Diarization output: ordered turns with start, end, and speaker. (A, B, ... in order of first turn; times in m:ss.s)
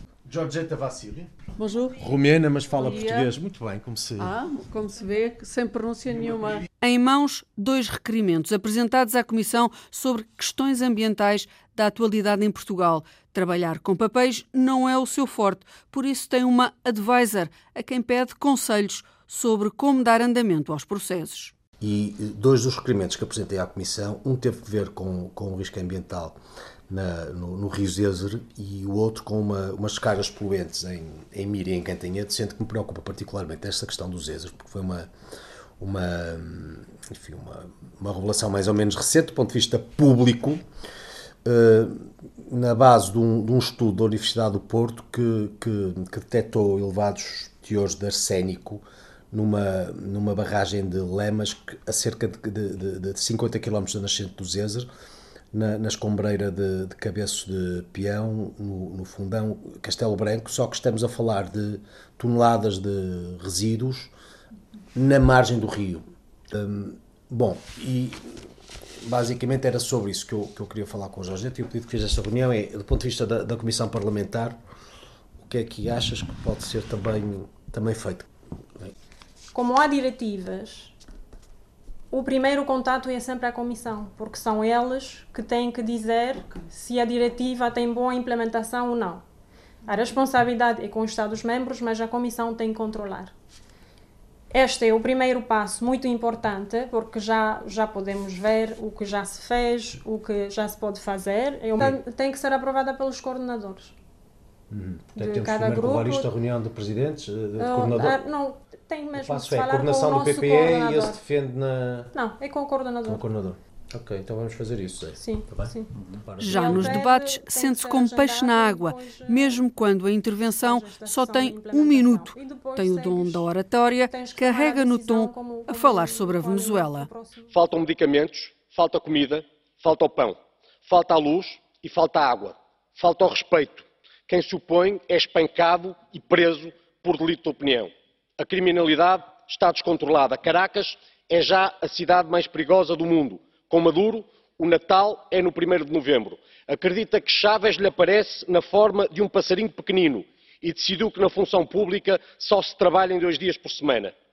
0:00.3-0:01.3 A
0:01.6-0:02.0 B
0:02.0-0:04.4 A
0:02.8-0:03.3 B
0:04.2-0:06.7 B
0:06.8-0:21.5 C
0:21.8-0:26.4 A
0:26.9-0:35.1 A
0:35.8-0:40.6 A
0:41.4-0:54.9 A
0:55.5-1:04.1 A
1:05.0-1:08.4 A
1:09.0-1:14.6 A
1:15.4-1:18.3 A
1:19.5-1:20.9 D
1:22.1-1:29.2 D
1:29.9-1:33.3 D
1:34.5-1:43.9 D
1:44.7-1:48.2 A
1:45.2-1:46.3 D
1:47.6-1:51.2 D
1:49.1-1:52.1 A
1:52.1-1:53.2 D
1:53.0-1:57.0 A
1:55.2-1:55.9 D
1:56.4-2:07.1 C
1:56.4-1:59.6 D
2:00.6-2:03.5 D
2:04.1-2:07.5 D
2:07.5-2:10.4 E
2:10.9-2:34.1 E